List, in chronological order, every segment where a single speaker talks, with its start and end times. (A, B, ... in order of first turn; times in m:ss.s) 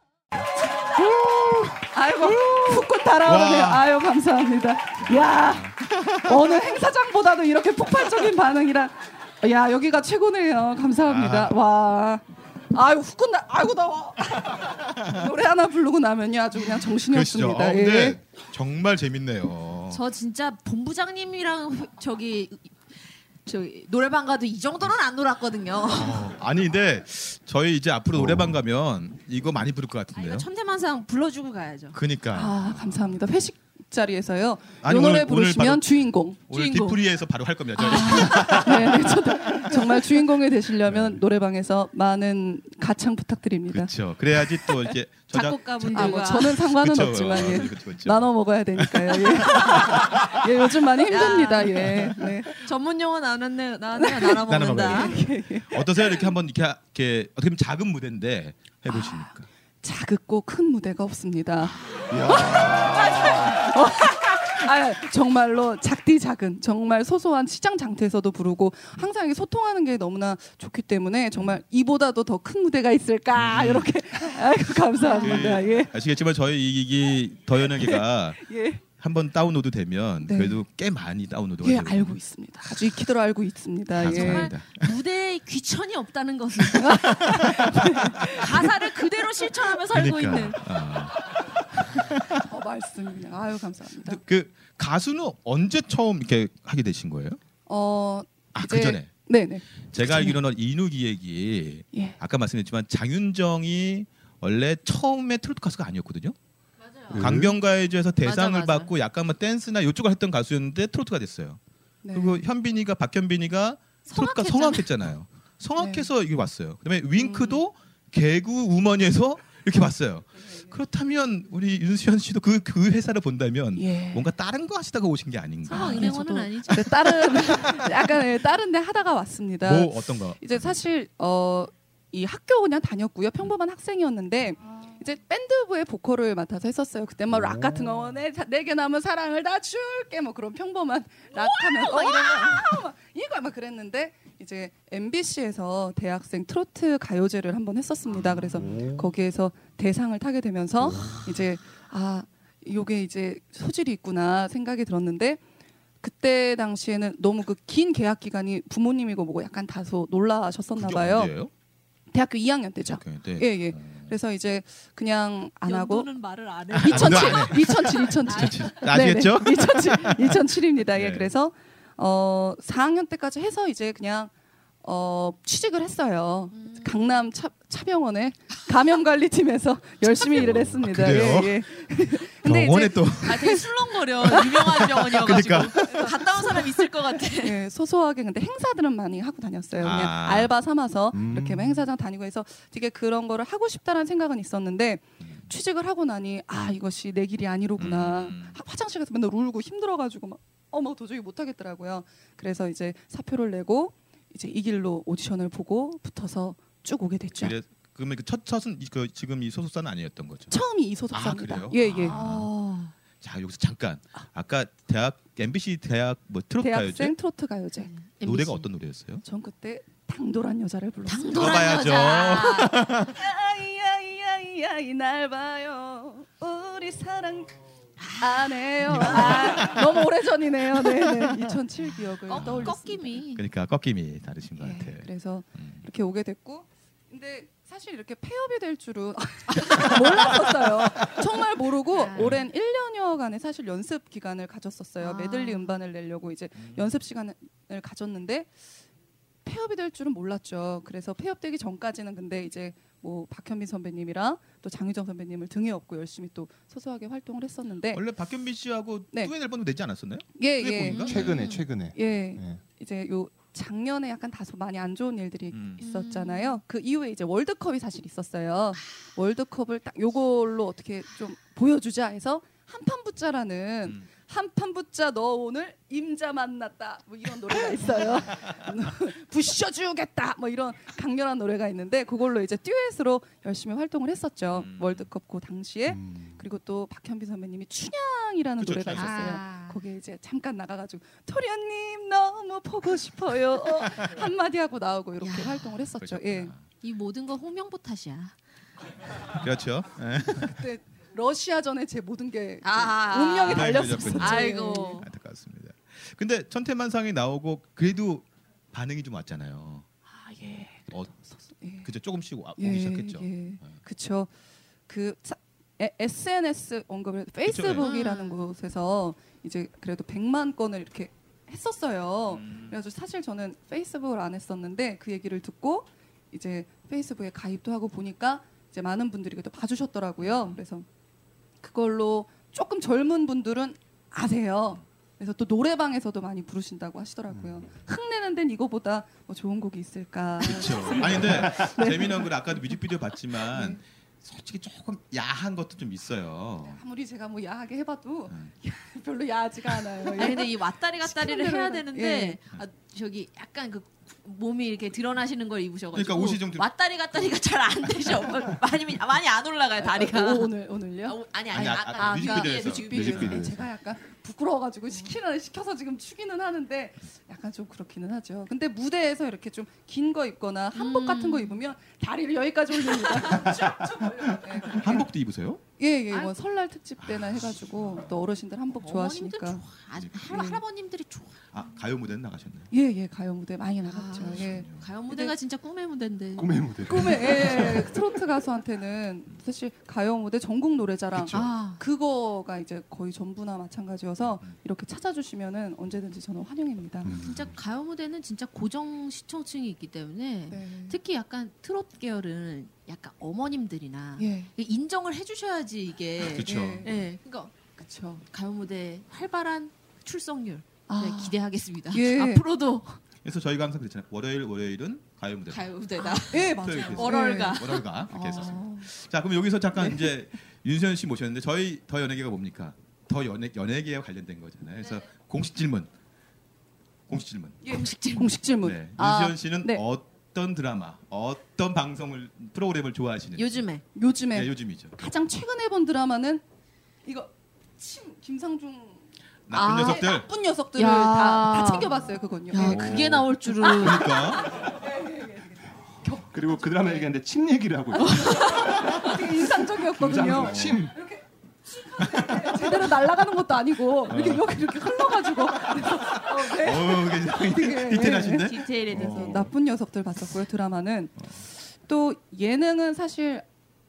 0:01.0-0:01.8 A
0:01.7-0:18.2 B
0:03.2-0:03.9 A
0:05.0-0:06.2 A
0:11.0-0:11.6 A
0:17.0-0:20.0 A
0:19.9-0:26.2 C
0:25.9-0:30.5 A
0:30.1-0:32.0 C
0:31.9-0:33.1 A
0:32.3-0:36.4 B
0:34.8-0:36.0 A
0:36.5-0:39.8 A
0:36.5-0:37.0 C
0:37.8-0:43.9 B
0:37.9-0:38.5 C
0:40.9-0:41.2 A
0:43.7-0:50.3 A
0:45.3-0:46.6 C
0:45.9-0:52.6 B
0:51.1-0:55.2 C
0:54.0-0:56.3 B
0:54.4-0:59.4 A
0:58.9-1:15.9 B
1:01.6-1:03.6 A
1:13.3-1:13.9 A
1:15.0-1:15.6 C
1:15.2-1:22.2 A
1:17.8-1:18.8 B
1:20.2-1:20.6 B
1:21.6-1:24.5 B
1:23.9-1:24.9 A
1:24.0-1:27.6 C
1:26.8-1:28.7 B
1:26.9-1:28.3 A
1:28.2-1:30.8 C
1:29.9-1:32.4 A
1:32.4-1:34.2 B
1:34.0-1:37.4 A
1:37.7-1:40.4 B
1:38.5-1:39.1 A
1:39.8-1:46.4 A
1:46.8-1:47.2 C
1:47.1-1:51.6 A
1:47.1-1:47.5 D
1:48.2-1:48.9 C
1:52.0-1:52.4 B
1:52.1-2:06.2 A
1:54.1-1:54.9 C
1:55.8-1:56.1 B
1:57.2-1:57.6 B
2:03.8-2:04.3 B
2:05.6-2:07.1 C
2:05.7-2:35.4 B
2:07.3-2:07.9 A
2:09.6-2:10.8 A
2:21.3-2:22.7 C
2:28.2-2:28.8 A
2:36.0-2:41.3 B
2:40.8-2:41.5 A
2:42.1-2:46.1 B
2:42.8-2:44.1 A
2:45.6-2:48.8 C
2:46.7-2:51.3 A
2:46.8-2:54.3 B
2:54.8-3:03.7 B
2:56.5-2:56.9 C
3:00.4-3:01.6 A
3:02.4-3:03.6 A
3:03.2-3:07.6 C
3:04.2-3:27.5 B
3:04.8-3:06.0 A
3:09.8-3:10.5 A
3:11.1-3:11.8 D
3:17.8-3:18.6 A
3:27.4-3:30.6 A
3:30.5-3:32.2 B
3:31.1-3:32.5 A
3:32.0-3:32.9 C
3:33.2-3:37.2 A
3:36.6-3:37.9 B
3:37.8-3:38.6 C
3:38.2-3:39.2 A
3:39.2-3:41.9 B
3:41.1-3:42.8 C
3:41.3-3:43.2 A
3:43.0-3:47.6 B
3:48.0-3:49.8 C
3:48.2-3:53.1 B
3:48.9-3:50.0 A
3:52.2-3:53.4 C
3:52.3-3:55.8 A
3:54.6-4:08.5 B
3:59.7-4:00.3 C
4:01.9-4:02.4 C
4:02.2-4:02.4 A
4:05.0-4:05.8 C
4:06.6-4:06.9 A
4:09.4-4:18.0 B
4:17.9-4:21.5 A
4:20.4-4:21.2 B
4:20.8-4:21.6 C
4:21.0-4:22.6 D
4:21.9-4:56.5 B
4:25.5-4:25.8 A
4:25.8-4:26.6 C
4:44.5-4:45.1 A
4:45.9-4:46.3 D
4:48.6-4:49.4 A
4:48.9-4:49.8 C
4:55.2-4:55.7 C
4:56.0-4:56.6 A
4:56.8-4:58.3 C
4:59.3-5:00.6 A
5:00.4-5:05.0 B
5:02.6-5:05.0 C
5:03.5-5:09.8 A
5:10.2-5:11.9 B
5:11.8-5:13.8 A
5:12.6-5:14.3 B
5:14.9-5:30.8 B
5:17.4-5:17.9 A
5:17.8-5:18.4 C
5:22.3-5:22.7 A
5:30.2-5:30.6 A
5:31.6-5:42.3 B
5:37.3-5:37.6 D
5:40.4-5:46.8 A
5:43.4-5:43.8 B
5:46.6-5:52.4 B
5:50.1-6:00.5 C
5:55.9-5:56.6 A
5:59.8-6:01.2 B
6:01.0-6:03.4 C
6:01.5-6:03.6 A
6:01.8-6:15.1 B
6:02.9-6:03.6 D
6:10.7-6:11.6 C
6:13.1-6:13.6 C
6:14.6-6:15.6 A
6:15.8-6:19.6 B
6:17.0-6:17.8 A
6:18.8-6:21.4 C
6:19.9-6:20.3 A
6:20.3-6:20.6 B
6:21.5-6:22.7 A
6:22.7-6:25.3 B
6:23.8-6:27.4 C
6:24.2-6:24.9 A
6:26.4-6:28.0 D
6:26.8-6:37.1 B
6:31.3-6:31.8 C
6:37.0-6:37.4 D
6:37.1-6:47.5 C
6:40.5-6:41.0 B
6:44.2-6:44.5 B
6:46.2-6:46.9 A
6:46.4-6:47.0 B
6:47.8-6:48.2 B
6:48.3-6:53.0 C
6:50.9-6:51.4 B
6:51.9-6:52.4 B
6:53.2-6:55.7 A
6:55.5-6:57.9 C
6:56.0-6:58.9 B
6:56.3-7:05.9 A
6:59.8-7:00.1 B
7:07.1-7:07.6 A
7:07.6-7:09.8 B
7:07.7-7:08.4 C
7:08.6-7:13.6 A
7:13.4-7:13.8 C
7:13.9-7:16.4 B
7:14.3-7:15.0 A
7:17.0-7:19.0 B
7:19.5-7:20.3 A
7:19.5-7:20.1 C
7:19.6-7:27.1 B
7:20.8-7:22.0 C
7:22.5-7:24.2 C
7:22.6-7:23.2 D
7:23.6-7:24.5 A
7:26.3-7:31.0 D
7:27.9-7:43.4 B
7:28.0-7:28.8 C
7:30.1-7:30.7 A
7:32.0-7:32.5 A
7:34.1-7:34.5 A
7:35.7-7:39.4 A
7:38.2-7:39.4 C
7:38.9-7:39.4 D